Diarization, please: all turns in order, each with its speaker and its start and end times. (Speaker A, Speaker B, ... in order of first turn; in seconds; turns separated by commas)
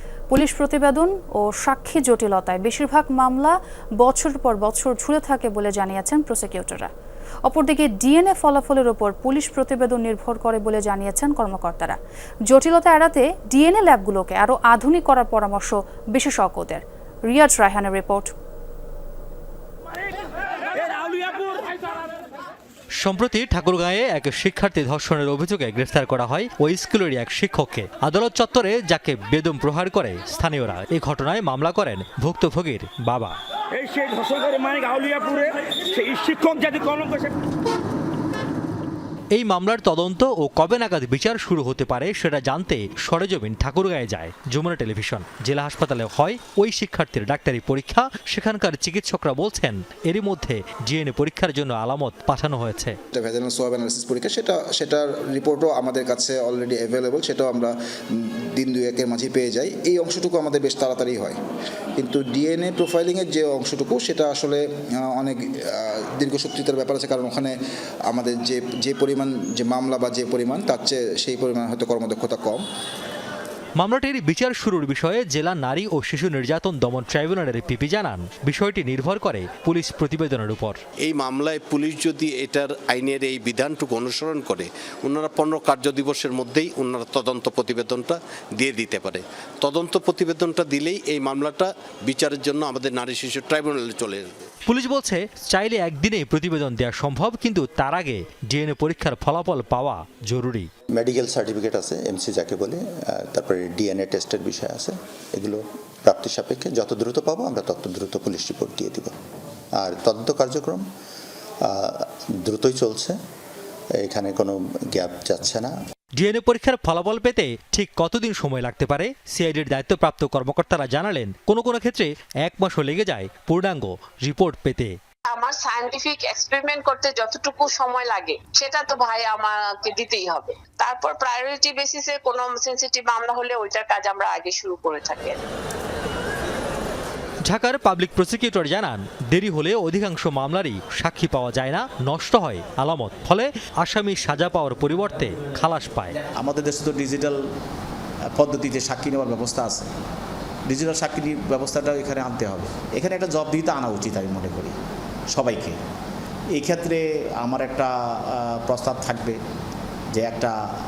Speaker A: 0.3-6.9, Speaker A: 7.5-12.0, Speaker A: 12.5-18.3, Speaker B: 20.9-21.7, Speaker C: 23.0-33.4, Speaker B: 33.8-37.3, Speaker C: 39.3-53.0, Speaker D: 53.1-61.4, Speaker D: 62.0-67.5, Speaker D: 68.1-72.6, Speaker C: 73.8-80.8, Speaker E: 81.0-94.4, Speaker C: 94.7-100.7, Speaker F: 100.9-109.1, Speaker F: 109.8-110.8, Speaker F: 111.6-113.2, Speaker F: 114.0-115.7, Speaker C: 116.2-124.9, Speaker G: 125.3-135.4, Speaker C: 137.5-146.1, Speaker H: 146.4-147.4, Speaker H: 148.3-149.9, Speaker H: 150.7-154.8, Speaker H: 155.3-155.8, Speaker H: 156.5-159.4, Speaker H: 160.1-160.6